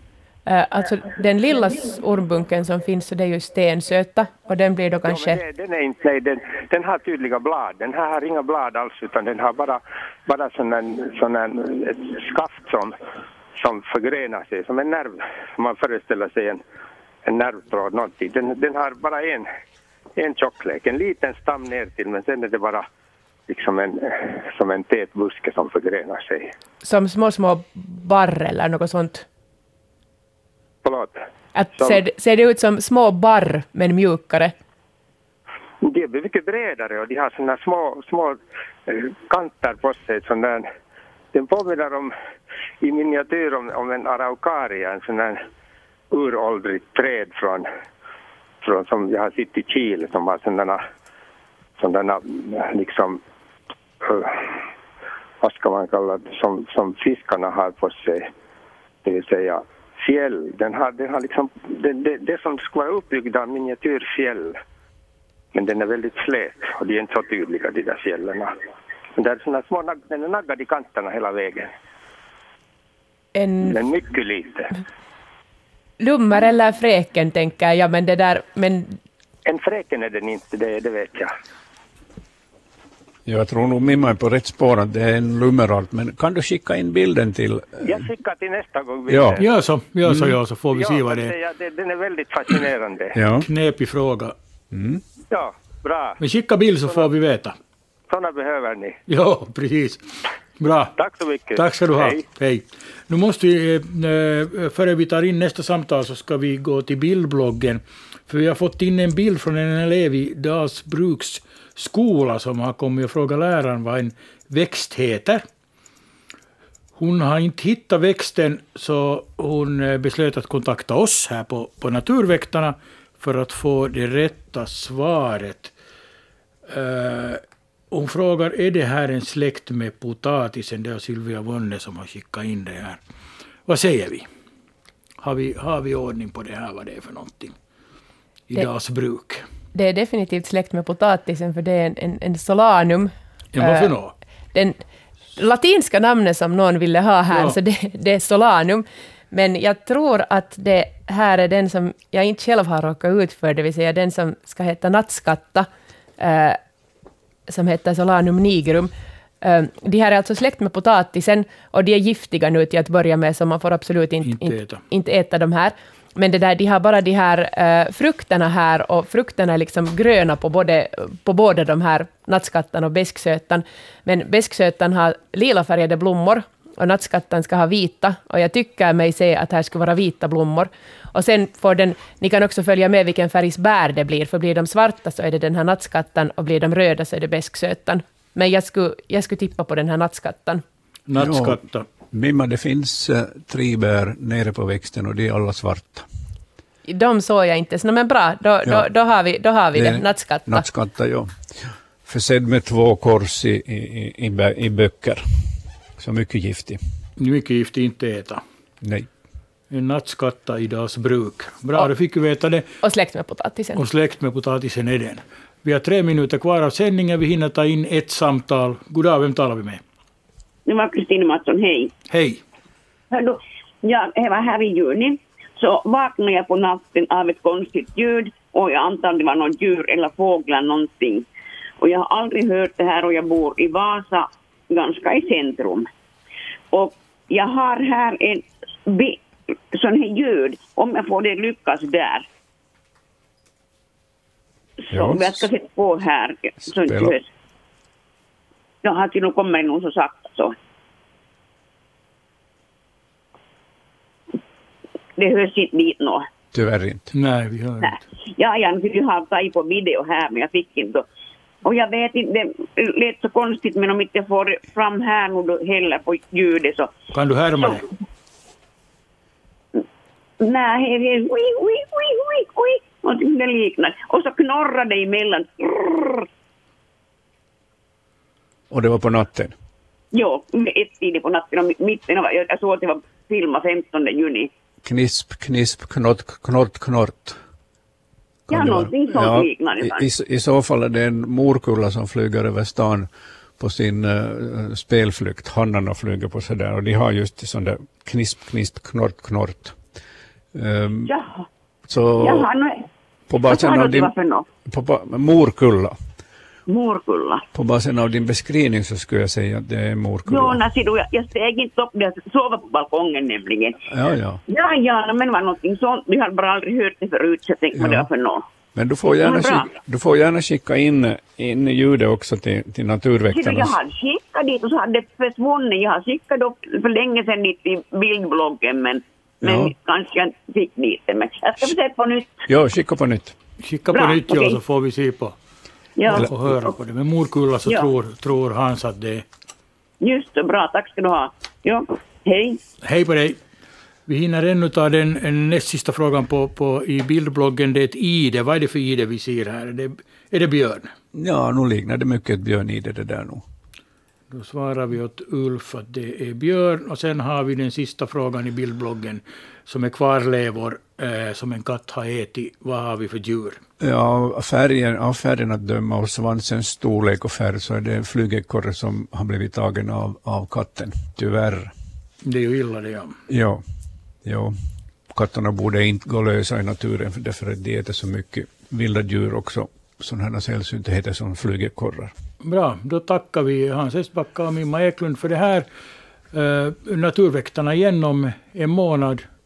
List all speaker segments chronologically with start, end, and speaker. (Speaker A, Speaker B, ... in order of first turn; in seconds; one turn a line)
Speaker A: 0.5-5.4
Speaker B: 5.0-12.9
Speaker B: 13.6-16.6
Speaker B: 17.2-19.5
Speaker B: 20.2-22.8
Speaker B: 23.5-26.5
Speaker A: 26.8-29.2
Speaker B: 30.8-31.2
Speaker A: 31.5-34.5
Speaker B: 35.8-40.7
Speaker B: 41.3-42.1
Speaker B: 42.8-45.4
Speaker B: 46.1-47.7
Speaker B: 48.6-50.8
Speaker B: 51.8-53.2
Speaker B: 54.0-54.6
Speaker B: 55.4-58.3
Speaker B: 59.0-64.6
Speaker B: 65.5-68.5
Speaker B: 69.2-71.7
Speaker A: 73.3-73.8
Speaker B: 73.6-74.7
Speaker A: 76.0-79.0
Speaker B: 79.5-81.3
Speaker C: 83.2-88.0
Speaker B: 87.8-89.5
Speaker C: 89.1-89.4
Speaker D: 89.4-91.3
Speaker C: 90.0-90.4
Speaker B: 90.7-93.2
Speaker C: 93.1-93.5
Speaker D: 93.4-94.3
Speaker C: 94.7-95.0
Speaker B: 95.3-96.2
Speaker D: 96.2-97.5
Speaker B: 98.1-99.0
Speaker D: 99.1-100.1
Speaker D: 100.6-100.9
Speaker B: 101.0-102.2
Speaker D: 101.5-115.4
Speaker D: 117.0-125.7
Speaker D: 126.7-133.0
Speaker D: 133.7-134.3
Speaker D: 135.2-137.5
Speaker D: 138.5-139.4
Speaker A: 139.7-143.9
Speaker D: 143.5-144.1
Speaker A: 144.5-144.8
Speaker A: 145.4-156.6
Speaker D: 147.3-147.6
Speaker A: 157.5-158.9
Speaker A: 159.4-190.6
Speaker D: 164.2-164.8
Speaker D: 191.1-191.8
Speaker C: 191.2-191.6
Speaker C: 192.1-196.1
Speaker A: 196.8-200.7
Speaker C: 198.6-198.9
Speaker C: 199.7-205.2
Speaker C: 206.0-206.8
Speaker D: 207.2-208.4
Speaker C: 208.8-209.1
Speaker D: 209.7-212.6
Speaker A: 212.8-213.8
Speaker D: 213.8-219.8
Speaker E: 220.7-221.9
Speaker D: 222.1-222.4
Speaker E: 223.1-231.2
Speaker E: 231.8-235.9
Speaker E: 236.7-242.2
Speaker E: 244.8-247.3
Speaker C: 244.9-245.4
Speaker C: 246.8-247.1
Speaker E: 248.8-250.5
Speaker E: 255.2-256.3
Speaker C: 256.5-257.1
Speaker D: 257.1-258.0
Speaker E: 257.8-261.0
Speaker E: 261.6-266.9
Speaker D: 267.1-267.9
Speaker E: 270.4-276.2
Speaker C: 278.7-279.5
Speaker E: 280.1-284.5
Speaker C: 284.8-287.4
Speaker C: 288.5-299.8
Speaker E: 288.5-290.1
Speaker C: 300.5-301.1
Speaker E: 301.1-301.4
Speaker C: 301.9-302.5
Speaker E: 302.2-302.9
Speaker C: 303.3-304.1
Speaker E: 303.4-304.4
Speaker C: 304.6-306.0
Speaker E: 306.7-307.4
Speaker C: 307.5-310.6
Speaker E: 310.3-313.8
Speaker C: 313.9-314.4
Speaker E: 314.5-318.4
Speaker C: 317.8-318.0
Speaker C: 318.7-323.7
Speaker E: 319.2-319.7
Speaker E: 323.3-332.4
Speaker C: 329.4-329.7
Speaker C: 332.5-333.4
Speaker D: 333.6-335.4
Speaker E: 333.9-334.6
Speaker E: 336.0-336.7
Speaker D: 336.1-339.2
Speaker E: 340.0-342.6
Speaker D: 342.8-343.4
Speaker D: 344.1-350.9
Speaker C: 351.1-353.4
Speaker D: 354.3-363.6
Speaker C: 363.8-371.7
Speaker D: 372.2-373.2
Speaker C: 373.3-373.6
Speaker C: 374.2-374.5
Speaker C: 375.1-382.1
Speaker D: 382.4-385.6
Speaker D: 386.3-389.2